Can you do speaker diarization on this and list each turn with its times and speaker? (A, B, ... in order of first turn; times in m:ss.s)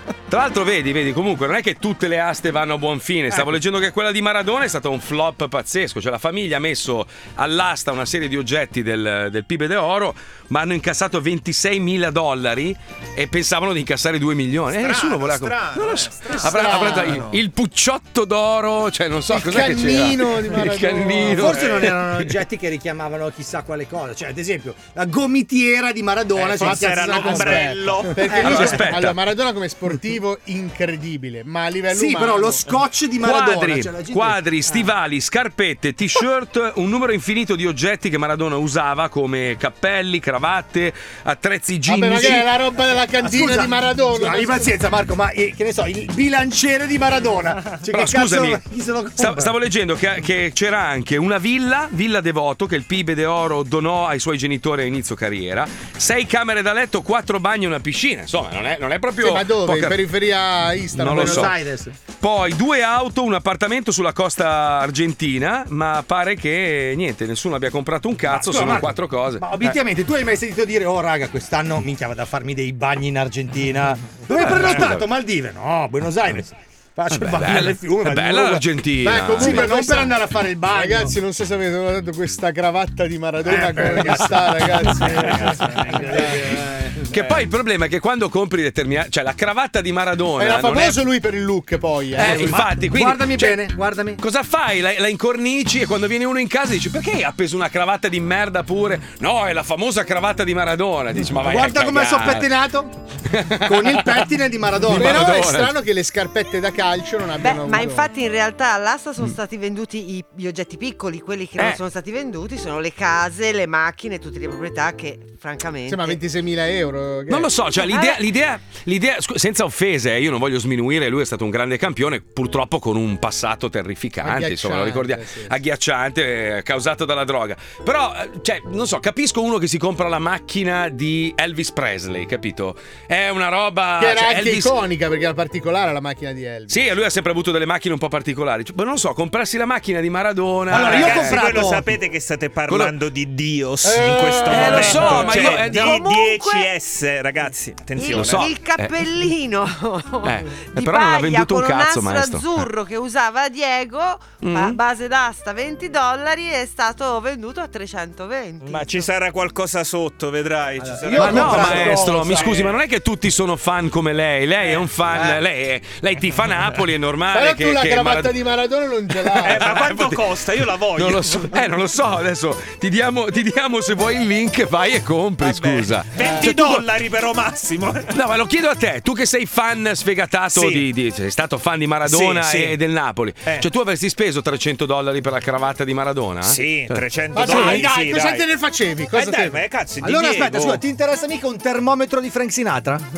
0:00.3-0:22.3 A
0:14.7-0:17.4 B
0:16.4-0:17.2 C
0:19.3-0:21.5 C
0:21.3-0:28.8 D
0:26.4-0:28.8 B
0:26.6-0:32.7 C
0:28.3-0:29.2 A
0:31.9-0:34.9 D
0:33.2-0:42.5 A
0:41.9-0:44.7 C
0:43.2-0:49.5 D
0:47.9-0:48.6 A
0:49.2-1:00.1 A
0:59.2-1:01.5 C
1:01.0-1:01.6 A
1:01.0-1:02.0 D
1:02.2-1:09.8 A
1:08.3-1:21.2 D
1:14.3-1:15.1 A
1:17.1-1:19.7 A
1:19.0-1:26.6 C
1:23.4-1:27.0 D
1:27.1-1:31.0 A
1:30.4-1:32.6 C
1:32.2-1:34.2 D
1:32.2-1:42.5 A
1:41.4-1:42.9 D
1:43.4-1:44.2 A
1:43.6-1:45.4 D
1:44.8-1:45.8 A
1:44.9-1:48.1 C
1:47.4-1:56.2 E
1:55.9-1:57.5 C
1:57.3-2:14.8 A
1:57.9-1:58.2 E
2:04.2-2:05.6 C
2:14.0-2:16.8 C
2:16.7-2:21.5 A
2:20.7-2:21.8 D
2:20.7-2:28.5 B
2:23.8-2:25.5 C
2:24.5-2:26.1 A
2:25.4-2:25.6 D
2:25.8-2:26.7 E
2:28.0-2:39.0 E
2:28.1-2:29.0 A
2:30.2-2:32.7 A
2:34.4-2:34.8 A
2:38.6-2:42.1 B
2:40.8-2:42.8 D
2:41.2-2:48.5 A
2:45.1-2:45.4 D
2:47.3-2:49.7 C
2:49.4-2:50.2 A
2:49.4-2:51.5 B
2:51.0-2:56.8 A
2:55.4-2:58.1 B
2:58.1-3:06.9 A
3:00.5-3:00.9 B
3:02.0-3:02.8 B
3:06.4-3:08.5 B
3:07.3-3:09.6 C
3:07.4-3:07.9 D
3:09.1-3:10.8 B
3:10.0-3:13.1 D